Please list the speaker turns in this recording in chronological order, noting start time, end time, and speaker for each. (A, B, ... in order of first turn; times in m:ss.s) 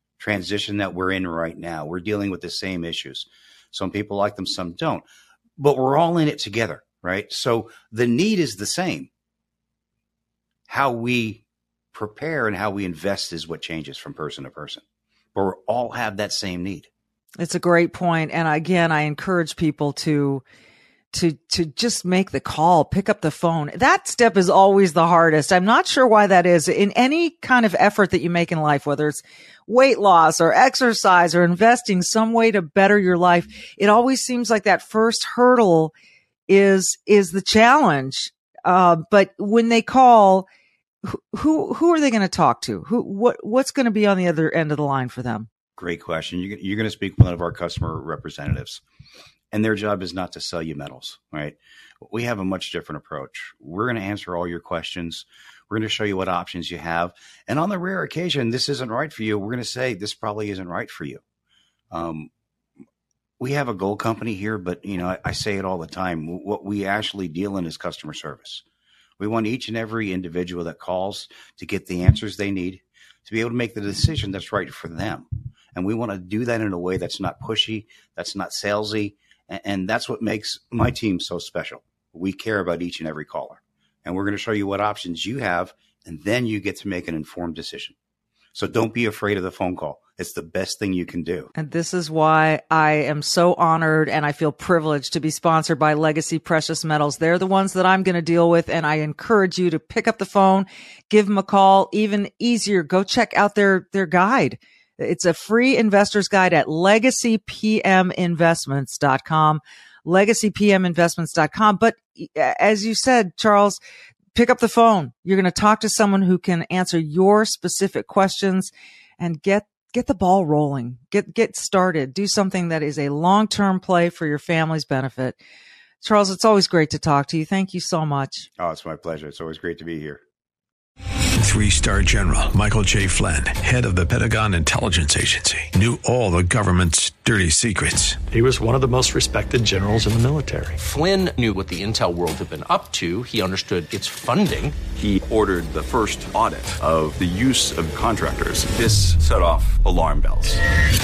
0:00.2-0:05.0 A
0:05.6-0:09.1 A
0:10.7-0:14.8 A
0:15.4-0:16.9 A
0:17.4-0:20.4 B
0:21.1-0:35.9 B
0:36.5-0:40.5 B
0:41.0-0:45.5 B
0:45.8-0:48.8 A
0:49.5-1:01.2 A
1:01.9-1:02.3 A
1:03.4-1:08.6 A
1:09.2-1:28.0 A
1:28.5-1:31.5 A
1:31.6-1:53.8 B
1:54.4-2:05.4 B
2:06.0-2:08.5 B
2:08.6-2:10.2 A
2:11.4-2:18.2 C
2:18.3-2:20.8 D
2:20.8-2:24.8 E
2:25.0-2:30.6 F